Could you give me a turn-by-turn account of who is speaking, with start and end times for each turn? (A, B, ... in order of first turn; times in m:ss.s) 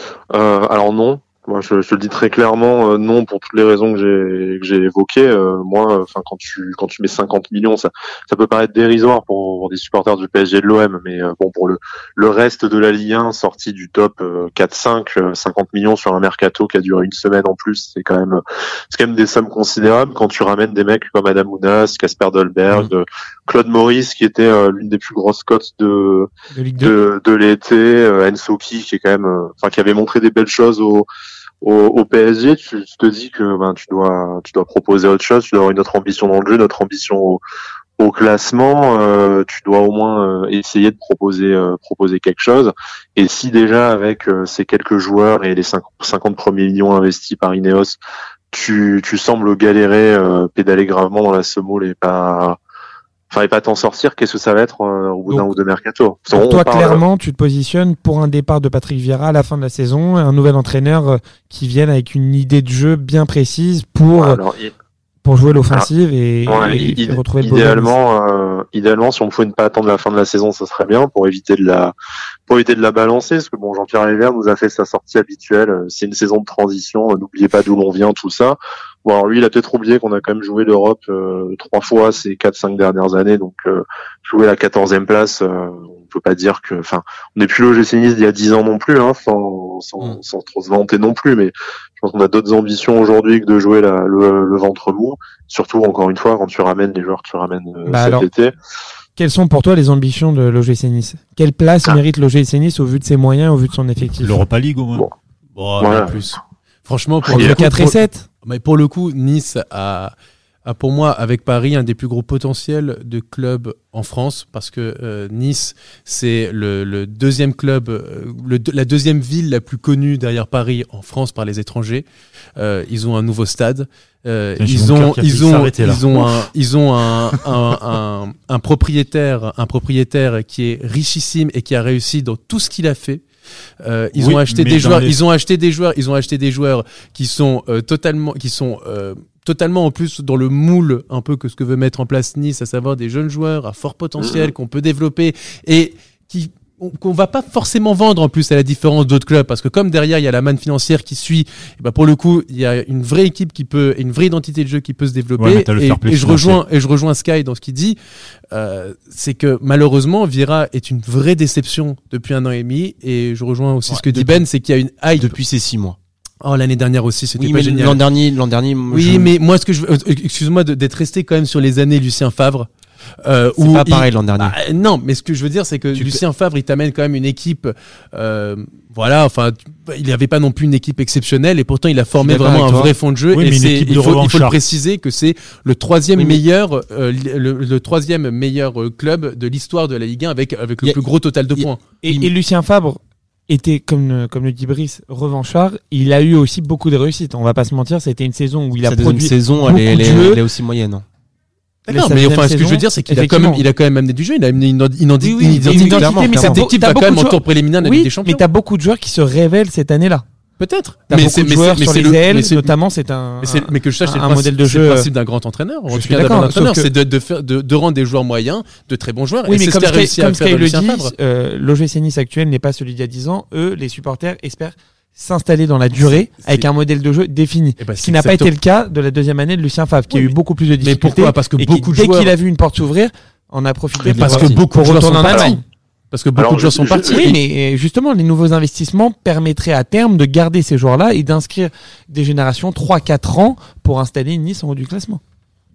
0:00.3-0:31.1 A
0:26.5-0:27.0 B
0:31.6-0:37.4 A
0:38.0-0:48.0 A
0:48.5-0:52.6 A
0:53.3-0:57.0 A
0:56.3-1:04.4 B
1:04.2-1:04.7 A
1:05.2-1:07.9 B
1:06.5-1:11.9 A
1:12.5-1:38.5 A
1:37.9-1:38.3 B
1:39.2-1:44.4 B
1:44.2-1:45.1 C
1:45.6-1:47.9 D
1:45.8-1:46.4 A
1:47.3-1:48.3 B
1:47.3-1:47.6 A
1:48.4-1:50.1 D
1:50.6-2:02.0 D
2:02.6-2:13.2 D
2:04.6-2:06.5 C
2:13.8-2:38.0 D
2:14.2-2:15.2 C
2:24.2-2:24.5 A
2:35.4-2:36.6 C
2:38.5-2:45.4 D
2:43.9-2:44.4 E
2:45.2-2:46.0 E
2:46.4-2:48.0 D
2:47.4-2:49.3 E
2:48.9-2:52.7 D
2:53.2-3:11.8 D
2:53.6-2:54.6 E
2:56.0-2:56.2 E
3:02.2-3:02.9 E
3:03.3-3:04.6 C
3:06.2-3:06.4 E
3:11.5-3:12.3 E
3:12.0-3:20.4 B
3:18.8-3:21.0 E
3:21.9-3:28.4 D
3:21.9-3:23.6 B
3:25.2-3:30.2 B
3:25.4-3:26.6 E
3:30.6-3:32.7 D
3:31.1-3:35.1 B
3:33.4-3:41.1 D
3:35.9-3:36.9 B
3:39.5-3:55.6 B
3:46.0-3:46.7 D
3:47.8-3:48.5 D
3:50.1-3:52.3 D
3:54.0-3:55.6 D
3:54.1-3:54.6 E
3:55.3-3:55.6 A
3:56.1-3:57.4 D
3:56.4-3:57.3 A
3:57.1-4:05.2 B